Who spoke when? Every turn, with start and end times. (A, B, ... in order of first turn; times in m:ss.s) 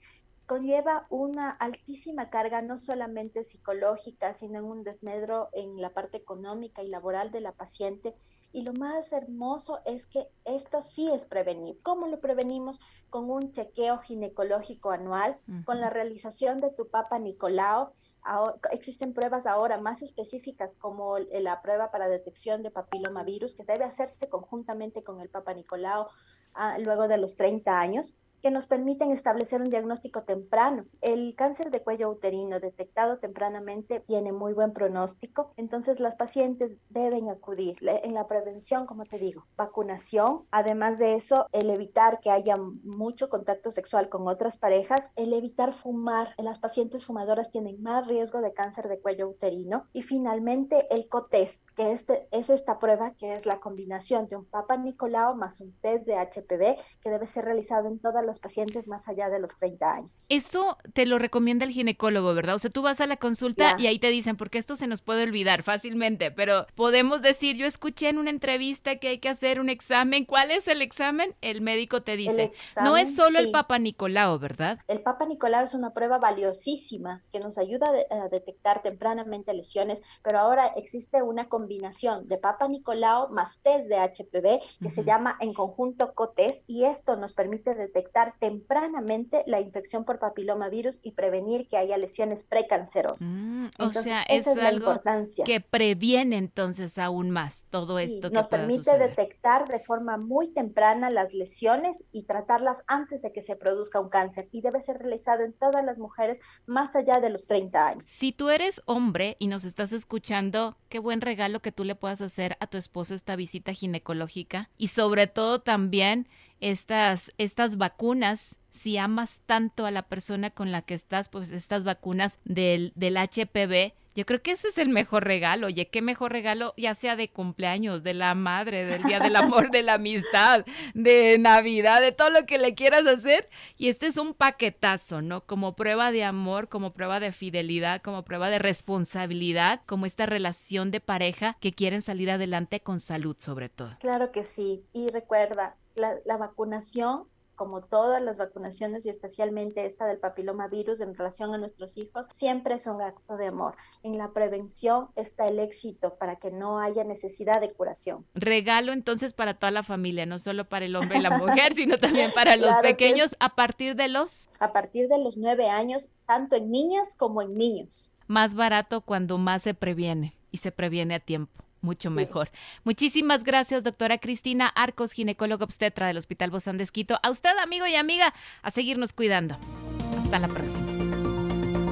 0:00.5-1:00.3 A
0:15.6-0:15.9 B
1:00.3-1:14.8 B
1:03.6-1:03.8 A
1:12.3-1:13.6 A
1:14.9-1:33.3 A
1:24.8-1:25.1 B
1:33.2-1:39.2 B
1:33.8-1:35.5 A
1:38.0-1:48.0 A
1:48.1-2:24.0 B
2:24.0-2:38.3 A
2:38.4-2:44.5 B
2:41.1-2:41.6 A
2:42.6-2:43.2 A
2:44.6-2:48.1 A
2:48.3-2:59.6 B
3:00.1-3:00.9 B